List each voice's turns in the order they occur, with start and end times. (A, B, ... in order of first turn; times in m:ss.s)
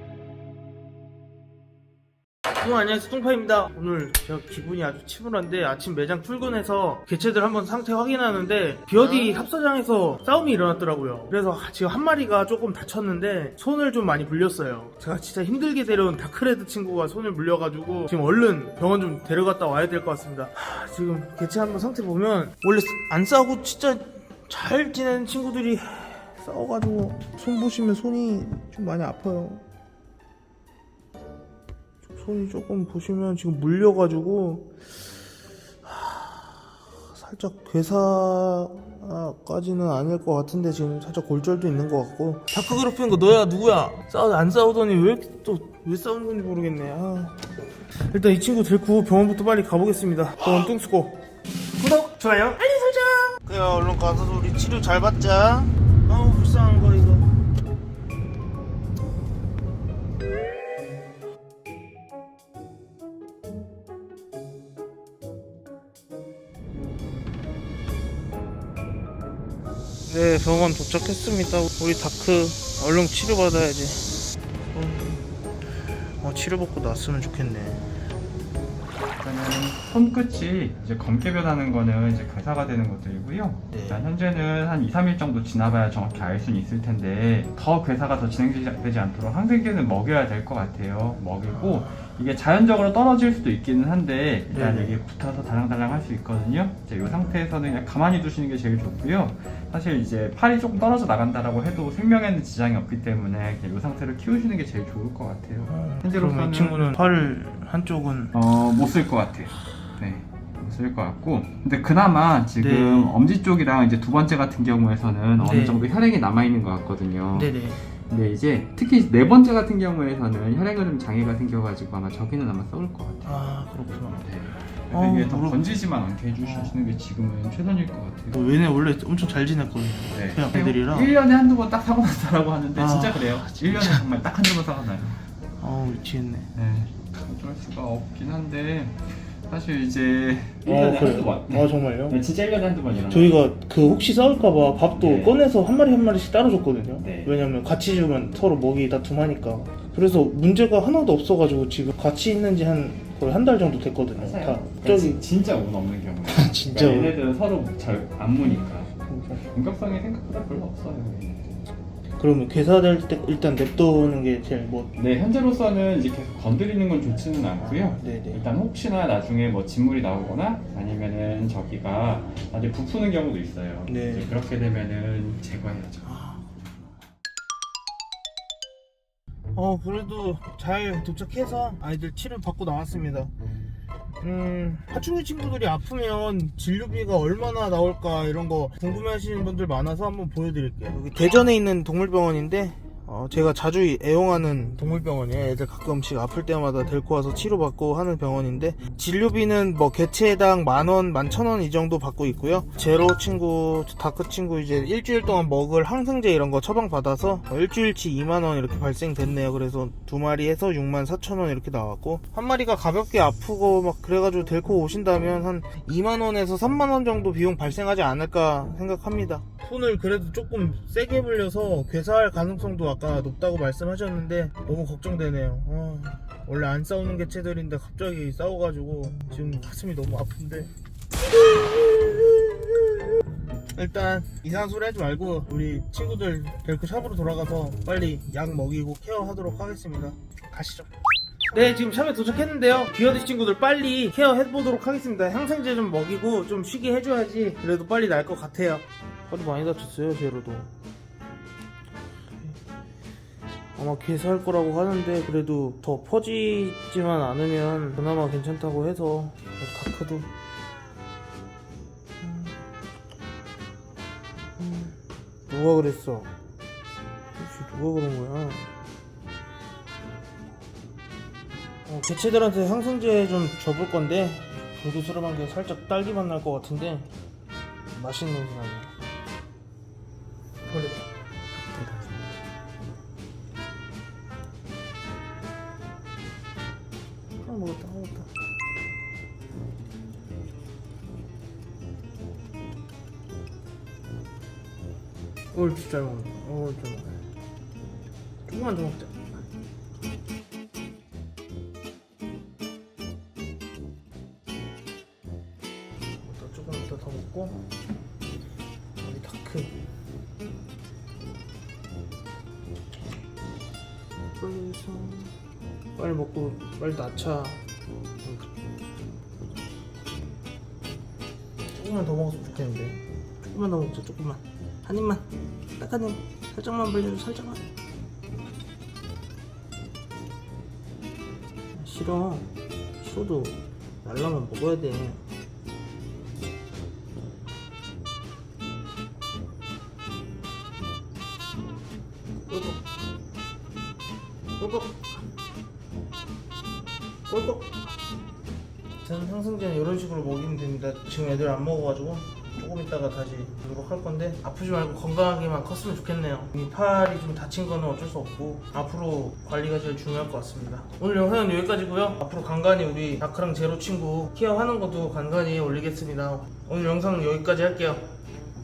0:02.6-0:29.6 A
0:32.2-0:34.8 A
0:35.8-0:47.4 A
0:48.1-0:51.2 A
0:51.8-0:57.3 A
1:10.1-1:14.1 A
1:14.7-1:15.2 A
1:16.2-1:17.8 A
1:19.2-1:47.0 B
1:23.7-1:24.0 A
1:31.5-1:32.0 A
1:34.5-1:35.0 A
1:45.7-1:48.3 A
1:48.3-2:08.4 B
1:52.6-1:53.2 A
1:55.4-1:55.9 A
1:57.3-1:57.8 A
2:03.2-2:05.6 A
2:06.4-2:06.8 A
2:08.3-2:11.1 A
2:10.1-2:15.2 B
2:12.8-2:14.0 A
2:15.6-2:16.5 A
2:16.6-2:23.4 B
2:20.7-2:22.2 A
2:23.1-2:35.2 A
2:24.9-2:25.4 B
2:27.0-2:27.3 B
2:34.2-2:41.6 B
2:36.3-2:37.2 A
2:39.1-2:39.4 A
2:42.2-2:44.9 A
2:45.0-2:56.2 B
2:47.6-2:48.4 A
2:53.9-2:54.3 A
2:56.0-2:56.4 A
2:59.6-3:03.3 A
3:04.2-3:50.7 A
3:51.3-3:53.1 A
3:53.8-4:00.9 A
4:01.5-4:10.7 A
4:13.8-4:20.3 A
4:22.2-4:22.6 A
4:24.6-4:25.0 A
4:25.5-4:26.3 A
4:27.4-4:28.7 A
4:31.9-4:37.1 A
4:37.9-4:38.9 A
4:40.7-4:41.1 A
4:41.6-4:42.3 B
4:47.4-4:48.3 A
4:55.5-4:57.2 A
4:58.5-4:59.4 A
5:06.2-5:07.6 A
5:09.0-5:09.7 A
5:14.4-5:15.3 A
5:16.0-5:17.6 A
5:18.2-5:18.5 A
5:21.7-5:25.2 A
5:25.8-5:27.6 A
5:31.8-5:32.5 A
5:33.0-5:35.2 A
5:42.5-5:42.8 A
5:44.6-5:45.1 A
5:47.3-5:47.8 A
5:49.0-6:08.1 A